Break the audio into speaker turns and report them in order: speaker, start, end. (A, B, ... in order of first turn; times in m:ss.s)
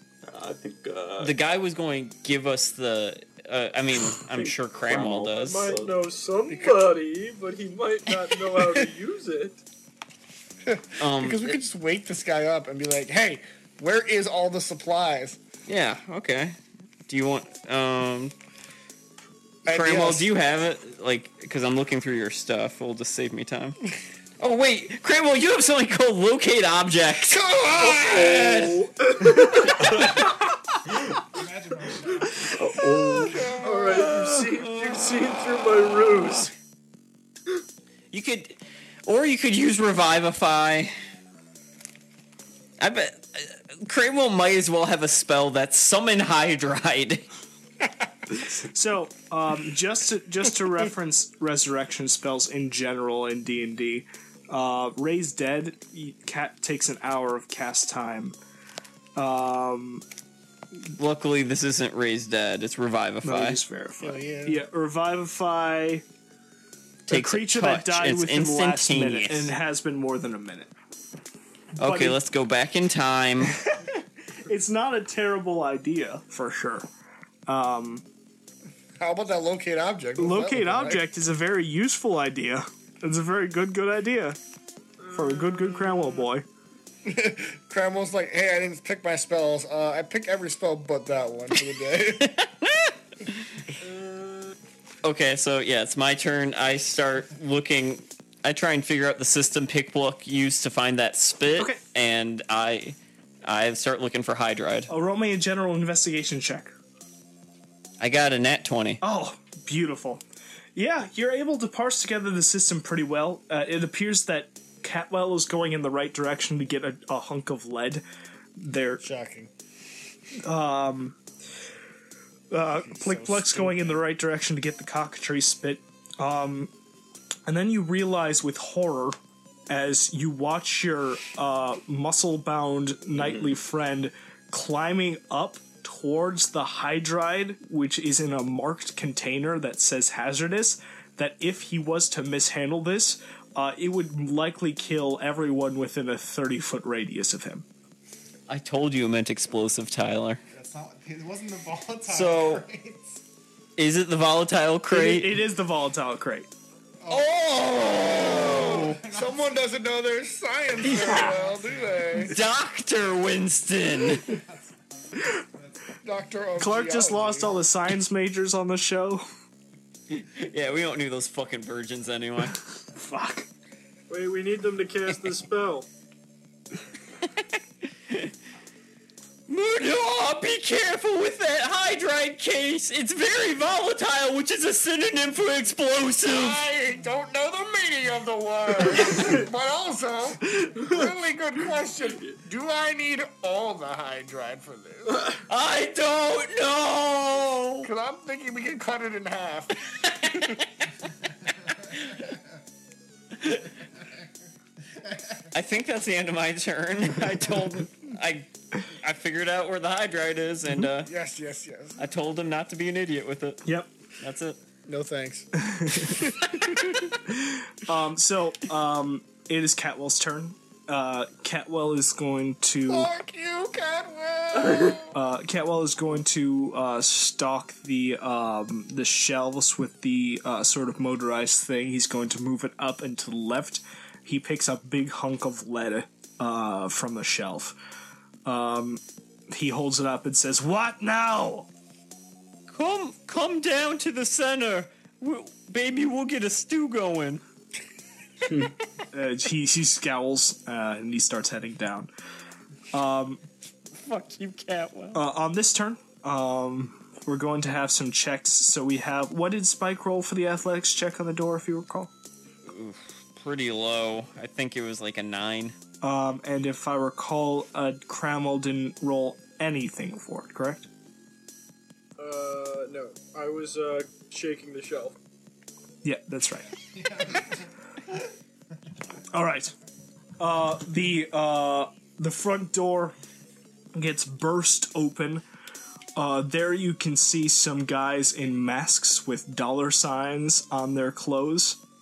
0:00.2-0:01.3 A
0:01.2-0:05.7 B
0:04.2-0:06.1 A
0:05.3-0:09.6 C
0:06.5-0:06.8 D
0:10.7-0:15.4 D
0:11.0-0:11.6 B
0:15.7-0:16.6 B
0:17.1-0:18.3 B
0:19.7-0:20.3 D
0:19.7-0:23.8 B
0:24.4-0:27.4 B
0:27.3-0:28.8 D
0:27.8-0:30.2 C
0:31.3-0:32.6 E
0:32.5-0:33.5 A
0:32.8-0:34.2 D
0:33.3-0:33.6 E
0:33.6-0:36.5 C
0:33.9-0:35.0 B
0:38.1-0:41.0 B
0:42.8-0:47.2 B
0:48.6-0:58.4 F
0:59.2-1:00.0 F
1:01.0-1:03.6 B
1:03.2-1:06.0 F
1:04.0-1:04.6 D
1:07.1-1:09.5 B
1:07.1-1:10.7 F
1:11.8-1:12.2 F
1:11.8-1:13.6 B
1:13.5-1:16.9 F
1:17.5-1:18.1 F
1:19.0-1:21.0 D
1:20.2-1:24.4 F
1:25.0-1:26.3 C
1:25.1-1:26.5 F
1:27.1-1:32.4 D
1:32.2-1:33.5 B
1:33.8-1:34.5 C
1:35.0-1:44.9 B
1:44.9-1:46.7 F
1:48.0-1:49.0 B
1:49.0-1:50.2 F
1:50.8-1:58.0 F
1:58.6-1:59.0 F
1:59.0-1:59.5 D
2:00.4-2:01.2 F
2:02.5-2:06.7 F
2:02.9-2:04.0 D
2:07.5-2:09.2 F
2:09.7-2:27.7 F
2:28.5-2:30.4 B
2:30.5-2:33.2 E
2:32.1-2:32.7 B
2:33.8-2:35.3 B
2:34.9-2:36.5 F
2:37.0-2:37.3 E
2:37.1-2:39.0 B
2:37.1-2:42.4 D
2:38.7-2:39.8 E
2:40.8-2:42.3 E
2:40.8-2:41.3 B
2:42.2-2:44.3 B
2:44.2-2:45.7 E
2:46.0-2:47.6 D
2:46.6-2:49.2 F
2:50.1-2:52.6 B
2:52.9-2:53.5 F
2:54.1-2:55.9 C
2:59.5-3:06.6 B
3:06.3-3:15.3 D
3:15.4-3:17.9 B
3:17.8-3:19.8 D
3:20.0-3:20.9 B
3:21.7-3:22.2 B
3:23.4-3:23.7 B
3:25.5-3:31.1 B
3:31.0-3:32.0 D
3:32.0-3:33.6 B
3:34.2-3:34.6 B
3:34.9-3:35.5 D
3:35.6-3:36.3 F
3:36.1-3:36.6 D
3:36.5-3:37.0 B
3:37.3-3:43.1 F
3:42.9-3:45.2 D
3:45.1-3:57.8 F
3:58.4-4:01.7 F
4:02.7-4:07.4 B
4:09.1-4:12.1 F
4:12.9-4:13.4 F
4:14.0-4:15.2 B
4:15.1-4:22.1 F
4:22.7-4:25.8 B
4:26.0-4:30.9 F
4:32.2-4:35.2 C
4:36.0-4:36.7 F
4:37.0-4:37.5 E
4:39.3-4:39.7 F
4:40.4-4:43.2 F
4:44.0-4:45.4 F
4:46.2-4:51.8 F